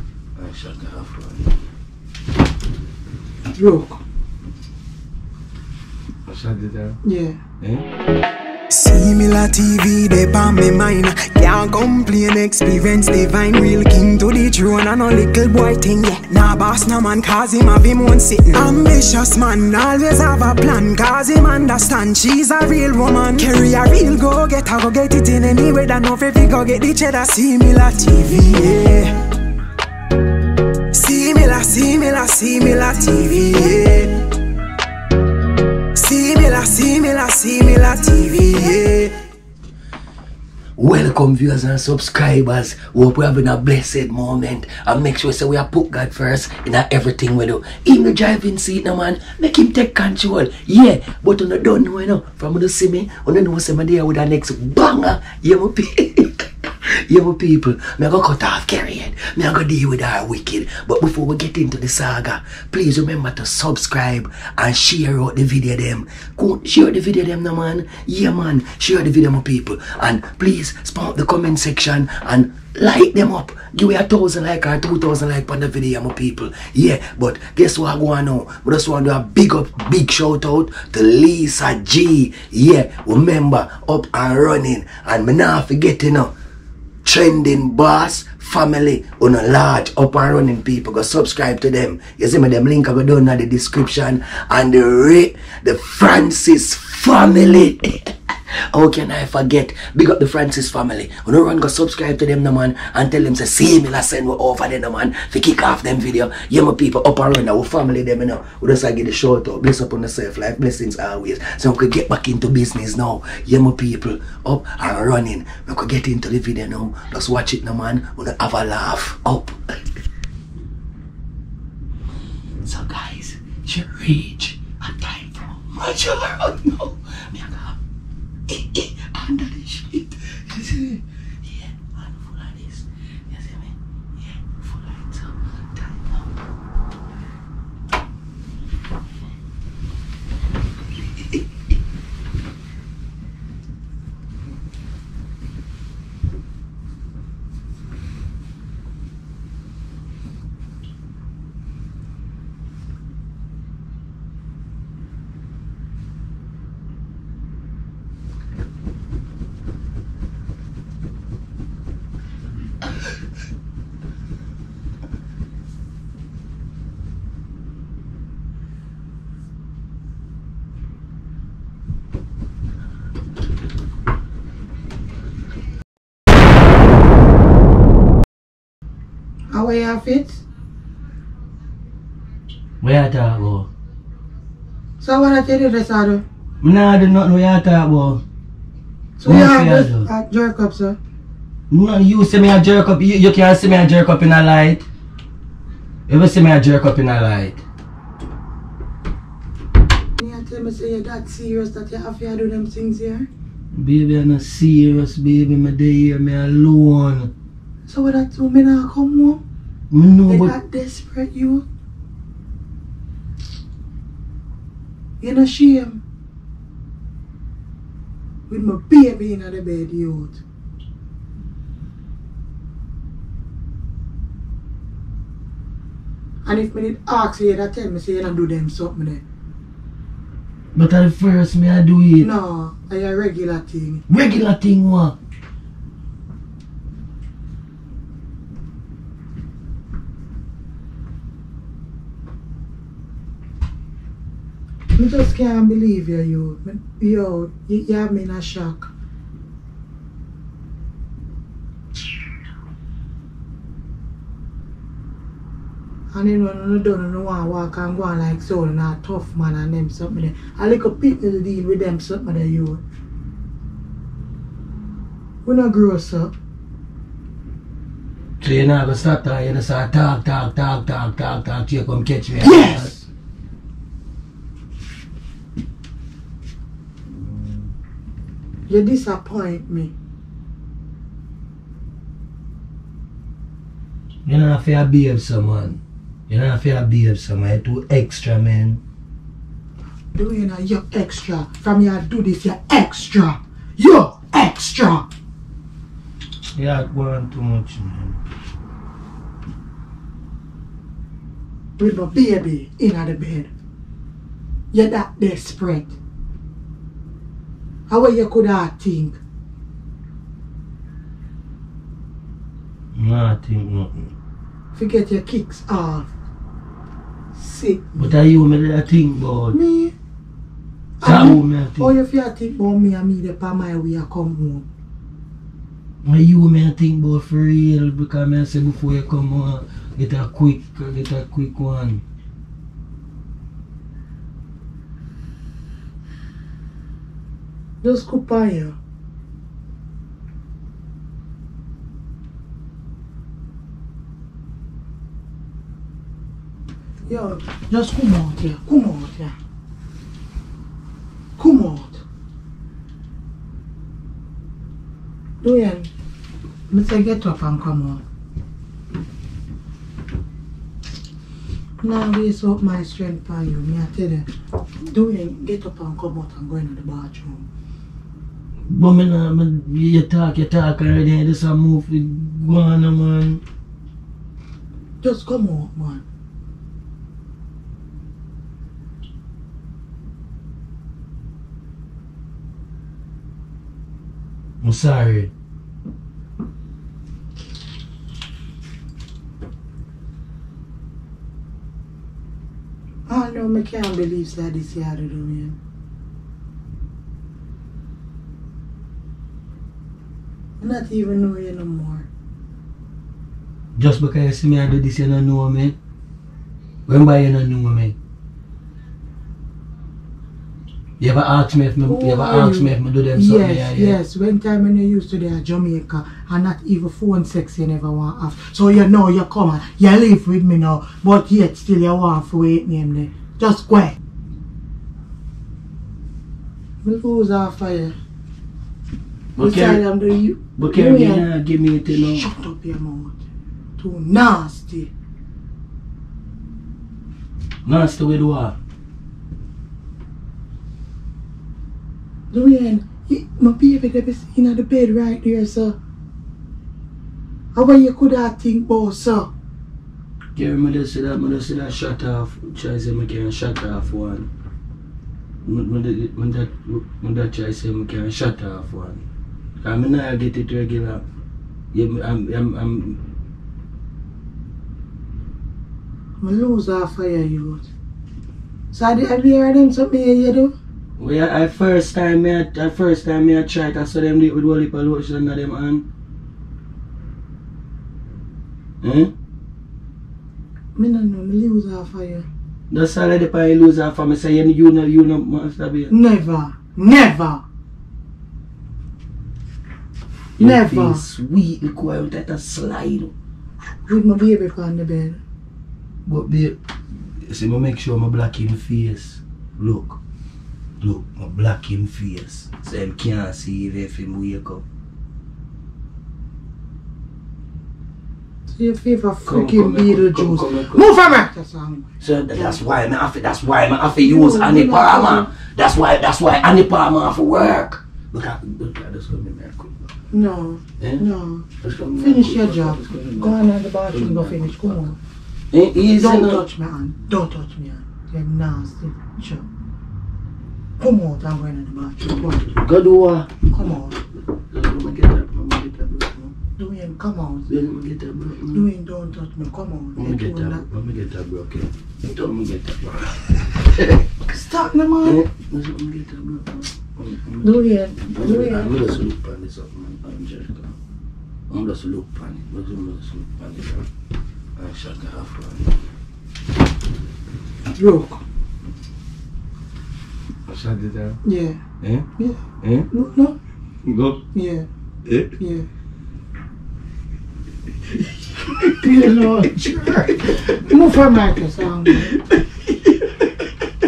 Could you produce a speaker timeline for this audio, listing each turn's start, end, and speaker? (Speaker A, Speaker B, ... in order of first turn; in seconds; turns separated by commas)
Speaker A: 0.3-1.4, Speaker B: 3.5-4.0, Speaker A: 6.3-7.0, Speaker B: 7.0-7.4, Speaker A: 7.6-7.8, Speaker C: 8.7-29.2, Speaker C: 30.9-34.3, Speaker C: 35.9-39.1, Speaker A: 40.8-86.3, Speaker A: 87.0-98.1, Speaker A: 98.7-119.8, Speaker A: 122.6-127.8, Speaker A: 128.5-136.1, Speaker B: 179.5-180.4, Speaker A: 182.8-183.7, Speaker B: 185.0-186.2, Speaker A: 186.6-188.2, Speaker B: 189.2-191.0, Speaker A: 189.2-190.1, Speaker A: 191.7-194.9, Speaker A: 196.1-197.6, Speaker B: 200.2-203.3, Speaker A: 203.7-207.3, Speaker B: 207.9-209.4, Speaker A: 209.9-210.5, Speaker B: 210.2-211.6, Speaker B: 215.2-216.0, Speaker B: 218.5-220.4, Speaker B: 226.4-229.2, Speaker A: 230.7-232.3, Speaker B: 232.2-234.0, Speaker A: 234.1-235.2, Speaker B: 244.9-248.9, Speaker B: 256.1-262.8, Speaker B: 265.4-266.3, Speaker A: 268.4-273.0, Speaker B: 272.4-273.0, Speaker B: 278.7-279.9, Speaker A: 284.2-288.8, Speaker B: 290.1-295.1, Speaker A: 296.5-298.2, Speaker B: 301.8-303.5, Speaker B: 304.7-306.0, Speaker B: 307.9-309.2, Speaker A: 312.9-314.1, Speaker B: 314.7-316.1, Speaker B: 317.3-318.2, Speaker A: 318.0-319.6, Speaker B: 319.5-319.9, Speaker B: 321.0-324.7, Speaker A: 321.0-321.9, Speaker A: 326.0-332.0, Speaker B: 337.8-338.8, Speaker B: 347.1-349.3, Speaker B: 351.4-352.0, Speaker B: 355.4-355.9, Speaker B: 356.7-358.0, Speaker B: 361.8-364.3, Speaker B: 364.8-367.4, Speaker A: 368.7-373.4, Speaker B: 375.0-376.0, Speaker A: 384.6-385.3, Speaker B: 393.1-395.6, Speaker B: 400.6-402.1, Speaker A: 403.8-405.8, Speaker A: 406.9-407.9, Speaker A: 411.0-414.0, Speaker B: 411.8-424.0, Speaker B: 426.8-427.9, Speaker A: 429.4-429.8, Speaker B: 429.4-431.3, Speaker A: 430.6-432.3, Speaker B: 431.9-433.2, Speaker B: 433.8-434.9, Speaker A: 437.6-438.6, Speaker B: 442.3-445.8, Speaker B: 447.5-449.3, Speaker A: 450.3-454.3, Speaker A: 455.4-459.0, Speaker A: 459.6-461.1, Speaker A: 461.7-463.0, Speaker B: 466.2-467.7, Speaker B: 468.7-470.5, Speaker A: 471.0-475.8, Speaker A: 478.8-479.1, Speaker B: 480.8-482.2, Speaker A: 482.7-485.9, Speaker B: 485.9-487.4, Speaker B: 490.4-491.0, Speaker A: 490.4-493.1, Speaker B: 493.9-495.2, Speaker A: 496.1-496.6, Speaker A: 497.2-500.0, Speaker A: 500.8-504.6, Speaker B: 508.5-512.6, Speaker A: 509.2-511.2, Speaker A: 512.0-519.9, Speaker B: 514.0-515.3, Speaker B: 520.1-525.0, Speaker A: 520.8-521.0, Speaker A: 521.6-525.0, Speaker A: 525.5-526.4, Speaker B: 526.0-529.5, Speaker B: 530.8-532.5, Speaker A: 532.5-533.9, Speaker B: 533.5-533.9, Speaker A: 534.5-536.3, Speaker B: 536.6-537.5, Speaker A: 537.5-538.7, Speaker B: 538.5-540.6, Speaker A: 540.0-544.1, Speaker B: 544.3-545.2, Speaker A: 545.0-550.7, Speaker B: 547.4-548.8, Speaker A: 551.5-553.9, Speaker A: 554.6-555.7, Speaker B: 557.8-558.2, Speaker A: 560.5-561.2, Speaker B: 561.2-561.6, Speaker A: 561.8-562.1, Speaker B: 562.2-563.4, Speaker A: 562.6-562.9, Speaker A: 563.8-564.2, Speaker B: 564.3-564.7, Speaker A: 565.0-565.3, Speaker B: 565.4-565.7, Speaker A: 568.4-570.2, Speaker B: 568.7-572.1, Speaker A: 572.1-573.1